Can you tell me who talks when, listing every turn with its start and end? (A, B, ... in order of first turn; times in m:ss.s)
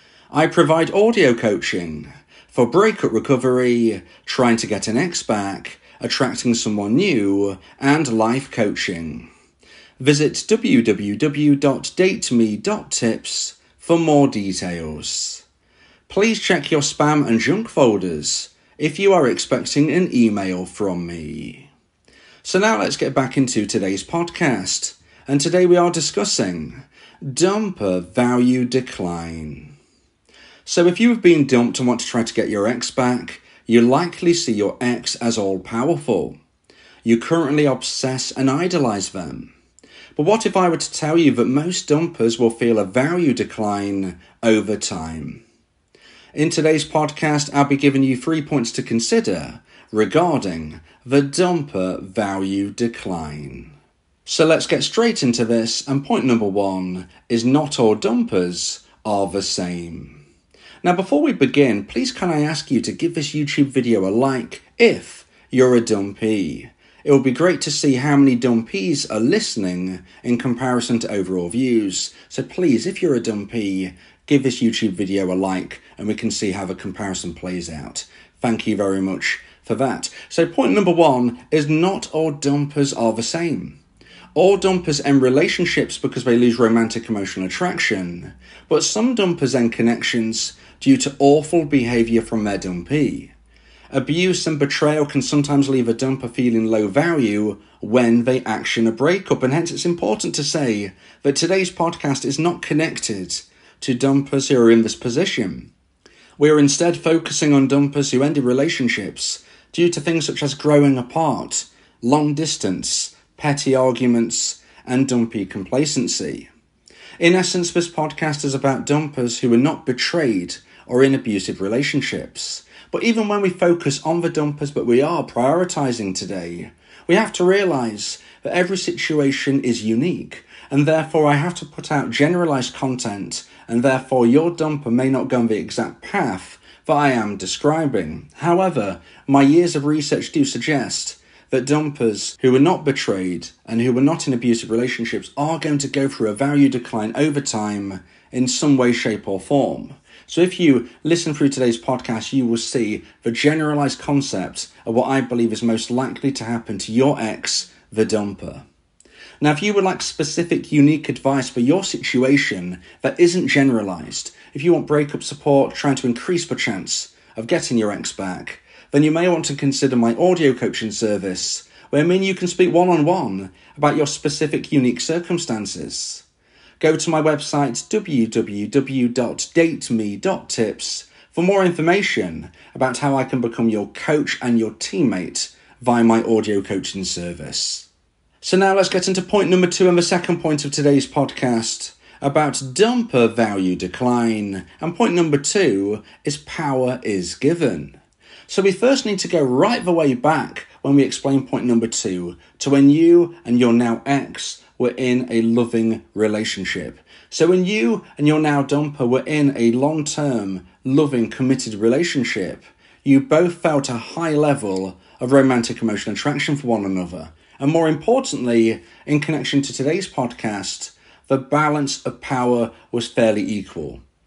0:00.3-0:09.3 A
0:10.0-0:15.4 A
0:16.1-0:21.7 A
0:22.4-0:29.8 A
0:30.6-0:36.4 A
0:37.0-0:39.5 A
0:40.1-0:45.4 A
0:46.3-0:53.7 A
0:54.3-1:00.2 A
1:00.8-1:23.8 A
1:24.3-1:33.3 A
1:33.9-1:45.7 A
1:46.4-1:56.5 A
1:57.2-2:38.6 A
2:39.4-2:56.2 A
2:56.8-3:07.9 A
3:08.4-3:44.0 A